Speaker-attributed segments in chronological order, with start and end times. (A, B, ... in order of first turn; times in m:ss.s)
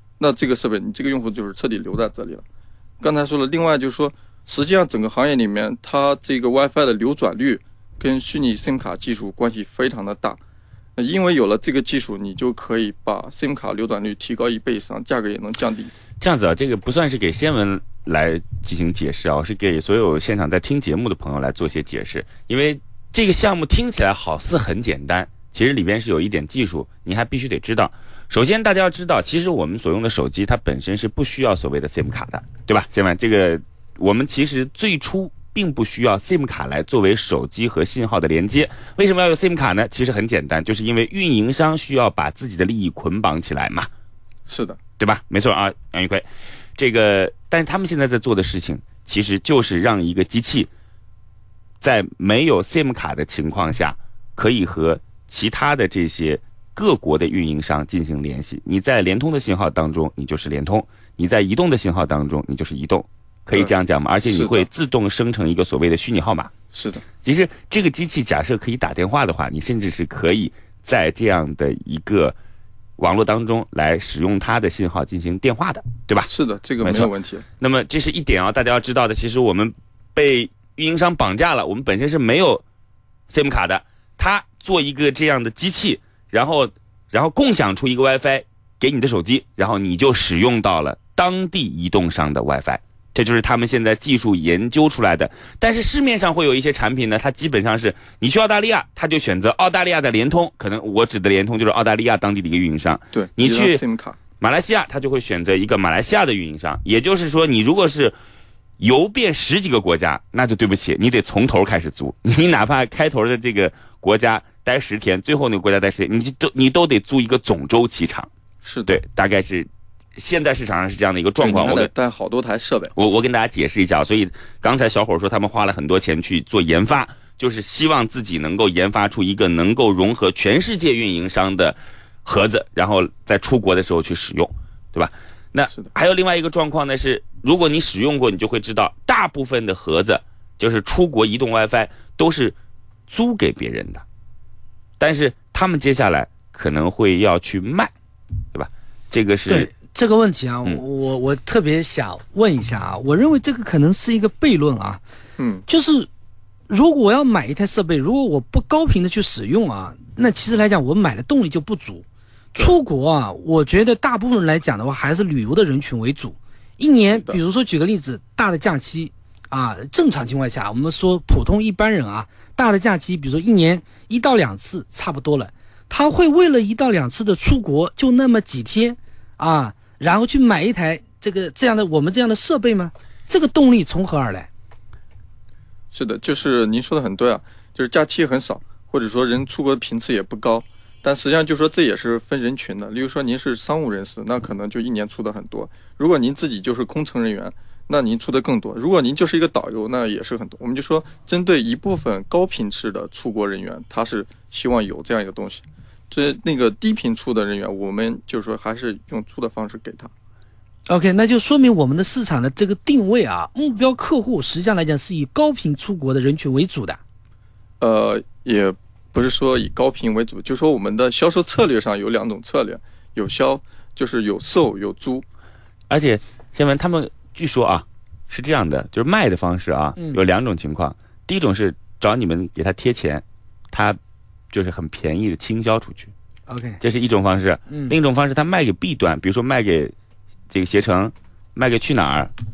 0:00.2-0:02.4 A
0:03.0-0:10.4 A
0:11.0-0:15.9 A
0:16.2-0:43.9 B
0:44.5-0:44.8 A
0:45.0-0:46.2 B
0:46.8-0:50.7 B
0:51.8-1:06.5 B
1:04.2-1:04.6 A
1:06.7-1:07.0 A
1:07.2-1:12.3 B
1:13.0-1:16.3 B
1:16.3-1:17.4 A
1:16.8-1:22.6 B
1:23.3-1:43.8 B
1:43.1-1:44.2 A
1:44.4-1:48.1 B
1:48.8-1:58.3 B
1:58.6-1:59.0 A
1:58.9-2:01.9 B
2:01.4-2:02.9 A
2:02.9-2:22.5 B
2:23.1-2:24.0 B
2:25.0-2:27.9 B
2:28.5-2:29.7 B
2:29.5-2:35.0 C
2:35.4-2:35.6 A
2:35.7-2:36.1 C
2:36.7-2:42.0 C
2:42.6-3:04.5 C
2:47.1-2:47.4 A
3:05.9-3:30.1 A
3:30.9-3:37.0 C
3:37.8-3:45.2 A
3:45.9-3:54.0 B
3:50.0-3:50.2 C
3:54.5-3:56.1 B
3:56.5-3:56.8 C
3:56.8-3:59.9 B
3:57.7-3:57.9 C
4:00.5-4:02.3 B